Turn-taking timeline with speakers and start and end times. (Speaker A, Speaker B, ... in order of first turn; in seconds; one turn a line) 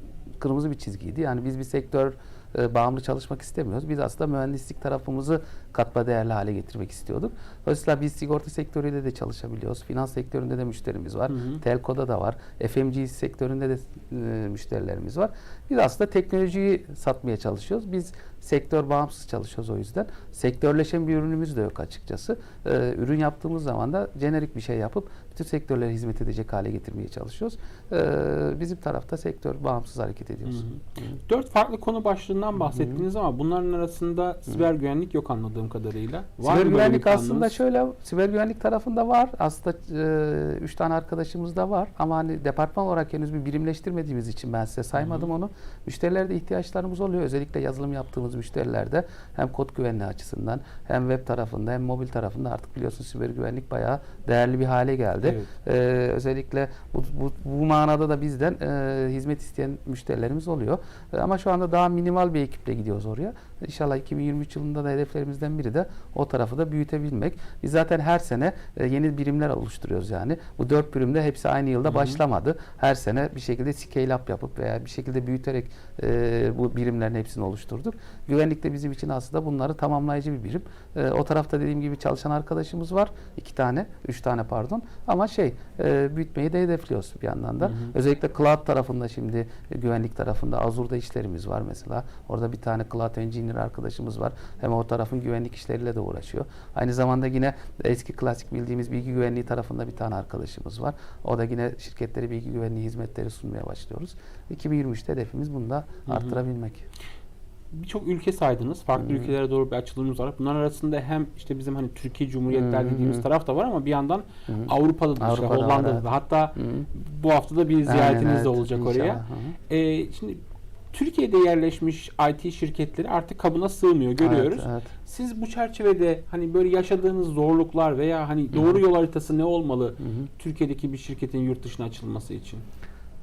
Speaker A: 0.4-31.2
Speaker B: 11.3-11.6
Speaker B: 30.5-37.6
Speaker A: 32.8-33.0
Speaker A: 36.4-106.8
Speaker B: 45.0-45.3
Speaker B: 55.2-55.5
Speaker B: 71.9-72.2
Speaker B: 87.6-87.9
Speaker B: 106.1-106.4
Speaker B: 107.7-120.4
Speaker A: 109.0-109.3
Speaker A: 112.5-113.3
Speaker A: 114.5-116.9
Speaker A: 117.9-119.6
Speaker B: 120.9-132.6
Speaker A: 124.2-124.9
Speaker A: 130.0-130.3